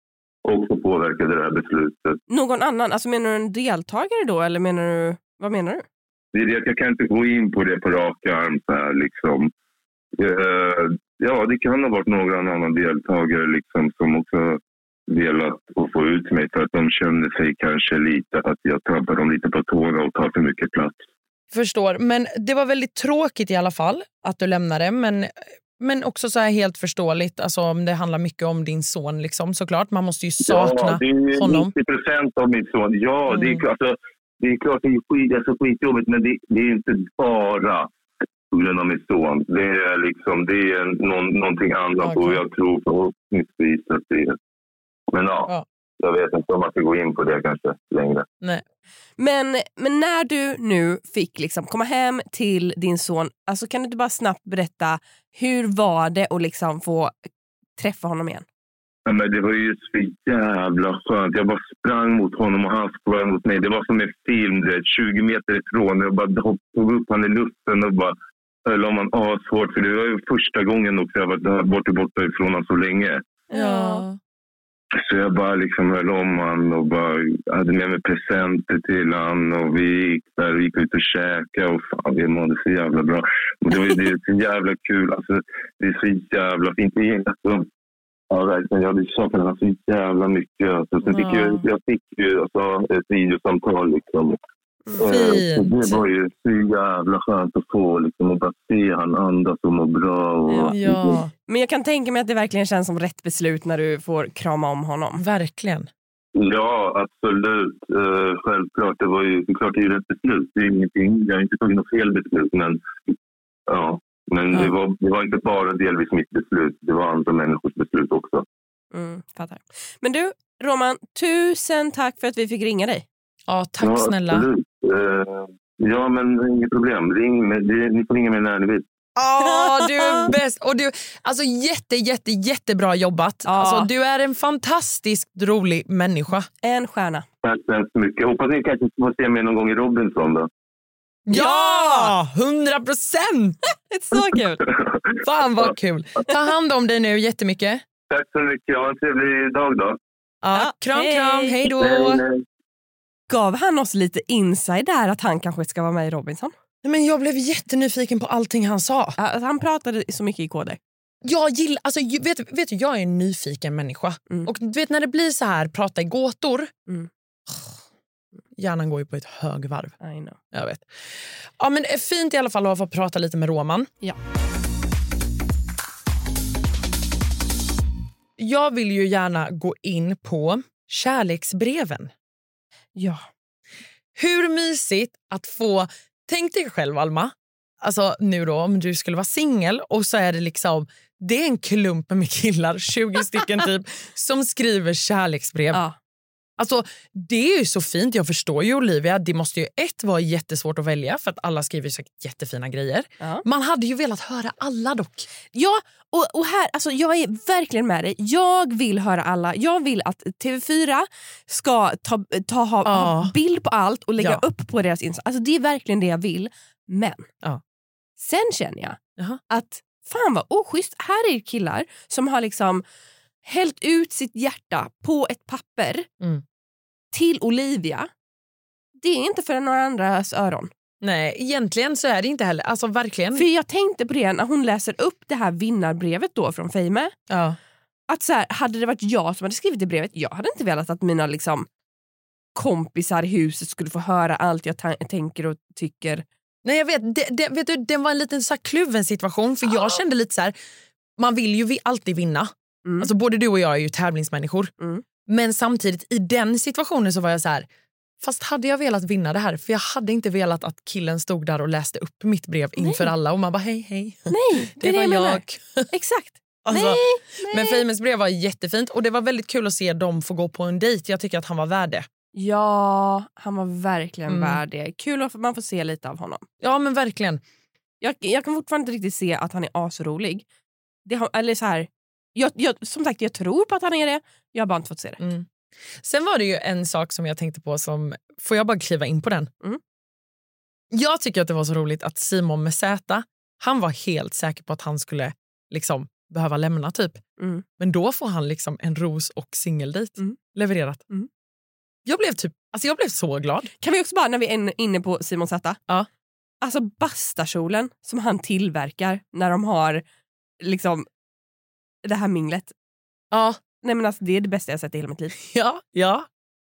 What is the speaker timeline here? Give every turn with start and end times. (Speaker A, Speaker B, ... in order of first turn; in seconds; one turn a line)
Speaker A: 0.4-2.2
Speaker B: 2.3-5.8
Speaker A: 6.3-9.5
Speaker A: 10.2-21.0
Speaker C: 21.5-31.7
Speaker A: 30.4-37.9
Speaker C: 33.3-33.6
Speaker A: 38.5-44.4
Speaker C: 42.0-42.4
Speaker A: 45.1-48.2
Speaker B: 49.2-57.1
Speaker B: 57.8-58.4
Speaker A: 59.0-73.2
Speaker B: 73.5-74.0
Speaker C: 73.5-74.2
Speaker A: 74.9-87.7
Speaker A: 88.3-94.4
Speaker C: 91.0-91.6
Speaker A: 95.0-101.2
Speaker C: 95.0-96.0
Speaker B: 100.5-100.8
Speaker C: 100.7-101.3
Speaker B: 101.5-105.2
Speaker C: 105.2-105.9
Speaker A: 106.3-113.1
Speaker A: 113.7-118.4
Speaker B: 118.9-123.0
Speaker C: 123.5-124.5
Speaker A: 123.8-128.8
Speaker C: 129.2-136.5
Speaker B: 129.4-130.3
Speaker B: 133.4-133.9
Speaker B: 136.6-137.2
Speaker A: 137.4-140.5
Speaker C: 141.3-143.6
Speaker B: 141.3-142.1
Speaker B: 143.9-144.6
Speaker A: 144.7-145.2
Speaker C: 145.2-147.8
Speaker A: 148.1-150.0
Speaker C: 150.4-152.2
Speaker B: 150.5-151.6
Speaker A: 151.8-152.4
Speaker B: 153.3-156.5
Speaker C: 156.8-159.2
Speaker B: 159.2-160.8
Speaker C: 161.2-166.7
Speaker C: 168.6-169.9
Speaker B: 170.0-170.4
Speaker C: 170.5-173.9
Speaker C: 178.4-182.1
Speaker B: 182.9-183.3
Speaker C: 184.2-195.8
Speaker C: 196.6-205.3
Speaker B: 205.5-217.3
Speaker C: 212.8-213.3
Speaker B: 218.2-219.0
Speaker B: 219.5-222.8
Speaker B: 223.4-226.1
Speaker B: 227.1-228.1
Speaker B: 229.0-230.7
Speaker C: 231.0-233.5
Speaker B: 233.3-237.1
Speaker C: 237.3-237.6
Speaker B: 238.1-241.7
Speaker B: 242.5-246.2
Speaker C: 246.6-250.5
Speaker C: 251.2-254.7
Speaker B: 252.8-253.1
Speaker B: 254.8-255.0
Speaker C: 255.3-257.7
Speaker C: 258.2-265.9
Speaker B: 262.8-263.1
Speaker B: 264.3-267.8
Speaker C: 266.6-272.1
Speaker B: 272.3-276.4
Speaker C: 274.3-274.6
Speaker C: 276.6-277.4
Speaker B: 278.0-280.4
Speaker B: 281.1-285.2
Speaker C: 285.2-285.5
Speaker C: 286.0-289.5
Speaker C: 290.9-297.2
Speaker B: 297.4-297.6
Speaker C: 297.8-301.0
Speaker C: 302.1-303.7
Speaker B: 303.8-305.8
Speaker B: 306.6-310.0
Speaker B: 310.6-311.1
Speaker B: 312.0-312.7
Speaker C: 313.3-313.6
Speaker B: 313.8-315.3
Speaker C: 315.4-316.3